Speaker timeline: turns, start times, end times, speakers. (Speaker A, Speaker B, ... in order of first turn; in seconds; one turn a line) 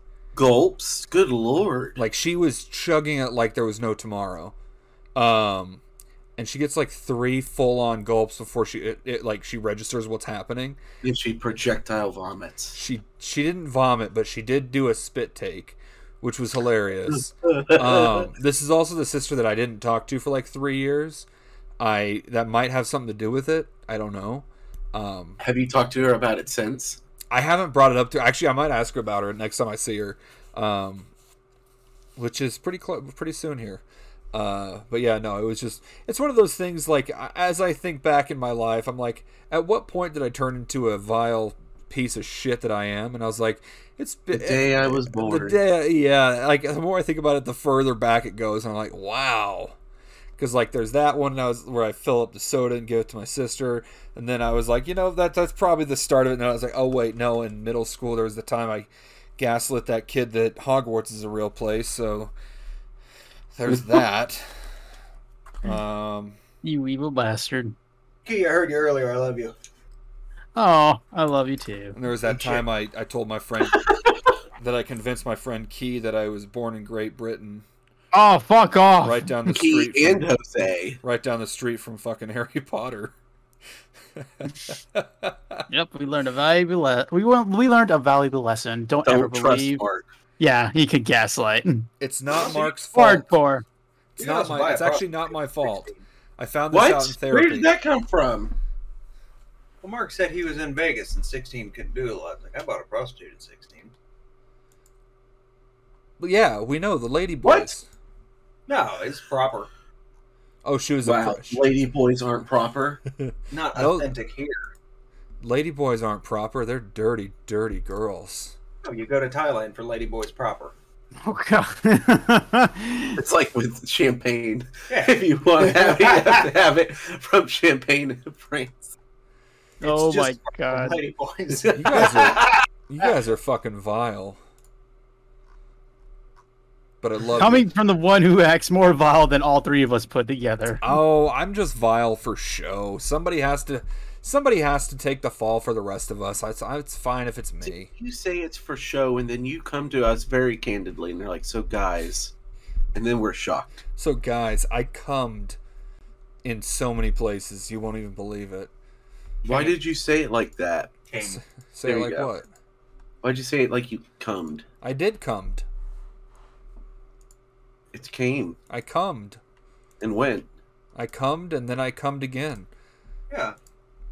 Speaker A: 0.3-2.0
Speaker B: 1.9-4.5
Speaker B: 5.1-5.8
Speaker B: 6.4-10.8
Speaker A: 11.0-12.8
Speaker B: 12.7-21.2
Speaker A: 17.1-18.3
Speaker B: 21.8-25.4
Speaker A: 25.4-27.0
Speaker B: 27.3-31.1
Speaker B: 32.2-49.7
Speaker A: 44.3-45.6
Speaker B: 50.4-62.3
Speaker B: 63.5-64.4
Speaker B: 65.6-66.4
Speaker C: 66.6-67.8
Speaker D: 68.2-69.5
Speaker C: 70.5-72.0
Speaker B: 71.9-73.9
Speaker D: 72.3-72.6
Speaker B: 74.6-77.6
Speaker C: 78.1-79.5
Speaker B: 79.0-80.3
Speaker A: 79.5-81.0
Speaker B: 81.0-83.1
Speaker B: 84.2-85.6
Speaker C: 85.7-89.8
Speaker A: 89.0-90.0
Speaker C: 90.4-91.9
Speaker B: 92.0-93.3
Speaker D: 92.3-92.7
Speaker C: 92.9-93.6
Speaker B: 94.2-97.7
Speaker D: 94.2-96.0
Speaker A: 96.7-98.5
Speaker D: 99.8-103.9
Speaker B: 106.2-107.8
Speaker A: 107.4-107.7
Speaker D: 108.7-109.7
Speaker B: 110.6-111.6
Speaker A: 111.0-113.0
Speaker B: 113.2-114.1
Speaker D: 113.5-114.7
Speaker B: 115.4-118.5
Speaker D: 118.8-120.7
Speaker C: 121.2-123.2
Speaker A: 123.2-128.9
Speaker D: 124.9-126.5
Speaker D: 129.8-132.6
Speaker C: 129.8-131.0
Speaker A: 131.5-132.2
Speaker B: 131.7-134.4
Speaker B: 137.0-137.7
Speaker C: 137.4-140.8
Speaker B: 140.8-147.9
Speaker A: 147.6-152.3
Speaker A: 152.9-153.8
Speaker B: 154.0-155.6
Speaker B: 156.4-158.7
Speaker A: 159.4-160.9
Speaker D: 161.1-161.4
Speaker B: 161.2-162.5
Speaker A: 161.8-162.3
Speaker A: 163.2-164.7
Speaker B: 164.8-165.6
Speaker A: 167.9-168.6
Speaker B: 168.7-169.4
Speaker A: 170.0-170.5
Speaker B: 170.9-172.7
Speaker D: 173.3-173.6